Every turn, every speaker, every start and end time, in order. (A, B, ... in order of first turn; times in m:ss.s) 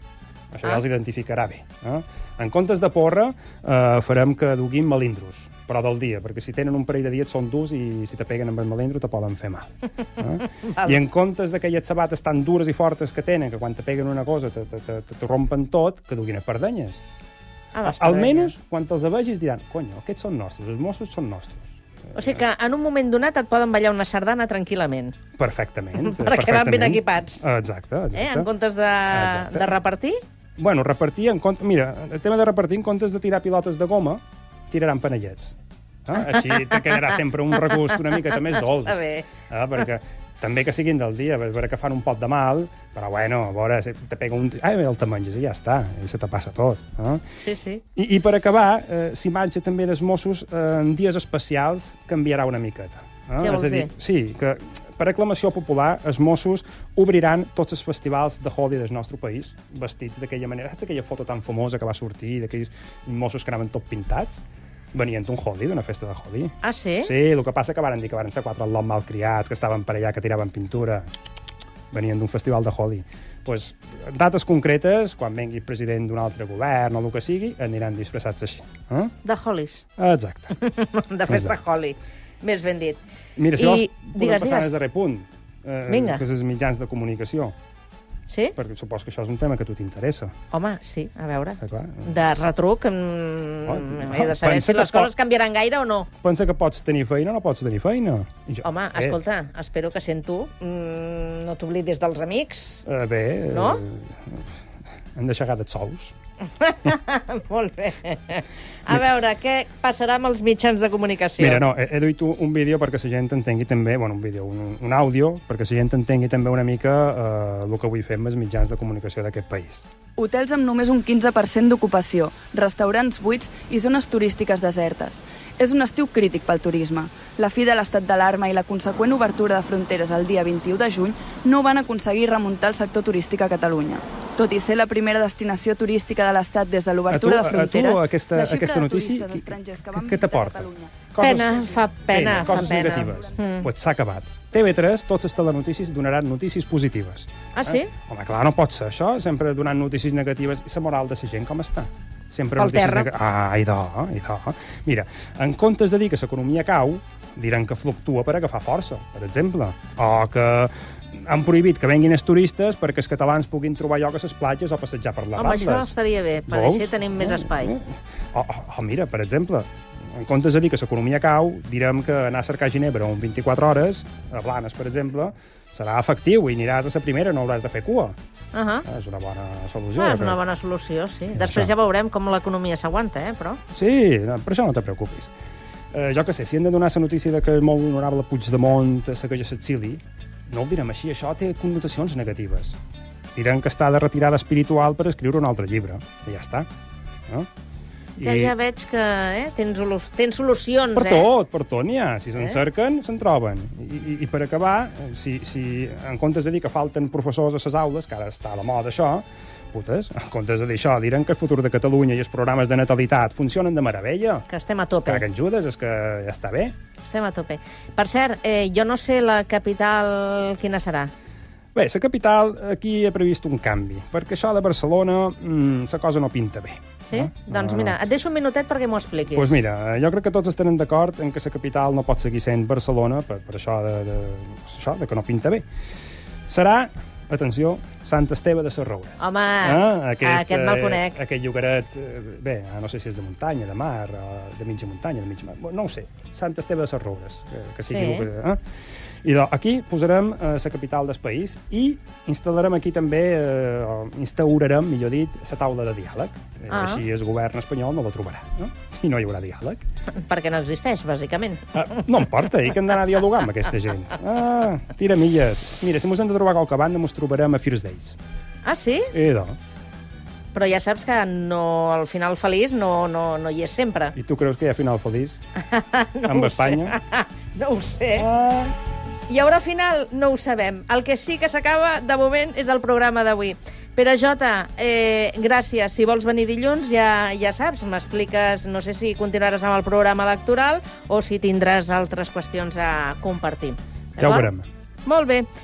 0:00.5-0:17.0 A
0:17.8-0:18.5 B
0:17.8-0:22.4 A
0:22.1-0:25.2 B
0:25.4-0:28.5 A
0:26.0-0:27.4 B
0:28.1-0:30.2 B
0:29.1-0:29.7 A
0:30.6-0:47.2 A
0:36.6-0:37.1 B
0:38.8-0:39.3 B
0:47.4-0:47.8 B
0:48.0-1:04.4 A
0:53.4-0:53.9 B
1:04.9-1:11.0 A
1:06.6-1:07.1 B
1:11.9-1:19.1 A
1:19.2-1:19.8 B
1:20.0-1:20.6 A
1:20.6-1:23.0 B
1:21.3-1:21.5 A
1:23.4-1:27.5 A
1:23.5-1:24.8 B
1:25.9-1:26.2 B
1:28.3-1:28.5 B
1:28.6-1:30.3 A
1:30.5-1:36.1 B
1:31.6-1:32.1 A
1:33.6-1:35.1 A
1:36.2-1:39.2 A
1:38.6-1:42.8 B
1:42.8-1:44.4 A
1:43.5-1:43.8 B
1:45.2-1:46.1 A
1:46.6-1:51.6 B
1:51.4-1:59.9 A
2:00.2-2:23.0 C
2:17.1-2:21.5 A
2:21.2-2:23.7 B
2:22.1-2:45.9 A
2:27.5-2:27.9 B
2:32.6-2:33.1 B
2:45.4-2:47.8 B
2:46.5-2:58.1 A
2:58.5-2:58.8 B
2:58.8-3:00.4 A
3:00.0-3:03.6 B
3:01.3-3:01.7 A
3:03.7-3:05.3 A
3:05.9-3:12.8 A
3:13.4-3:16.7 A
3:18.2-3:21.3 B
3:18.2-3:18.5 A
3:20.9-3:34.4 A
3:34.5-3:35.2 B
3:35.1-3:36.8 A
3:37.0-3:41.1 B
3:41.8-3:48.0 A
3:47.0-3:49.6 B
3:49.3-3:55.6 A
3:56.5-4:08.6 A
3:59.2-4:01.2 B
4:07.8-4:08.3 B
4:09.2-4:19.8 A
4:16.7-4:17.0 B
4:20.1-4:21.7 B
4:21.8-4:28.2 A
4:28.6-4:29.1 B
4:29.1-4:29.6 A
4:30.5-4:34.1 B
4:34.2-4:35.4 A
4:35.6-4:38.2 B
4:36.2-4:37.0 A
4:38.1-4:38.7 A
4:39.3-4:54.5 B
4:54.2-4:54.6 A
4:55.0-4:55.5 B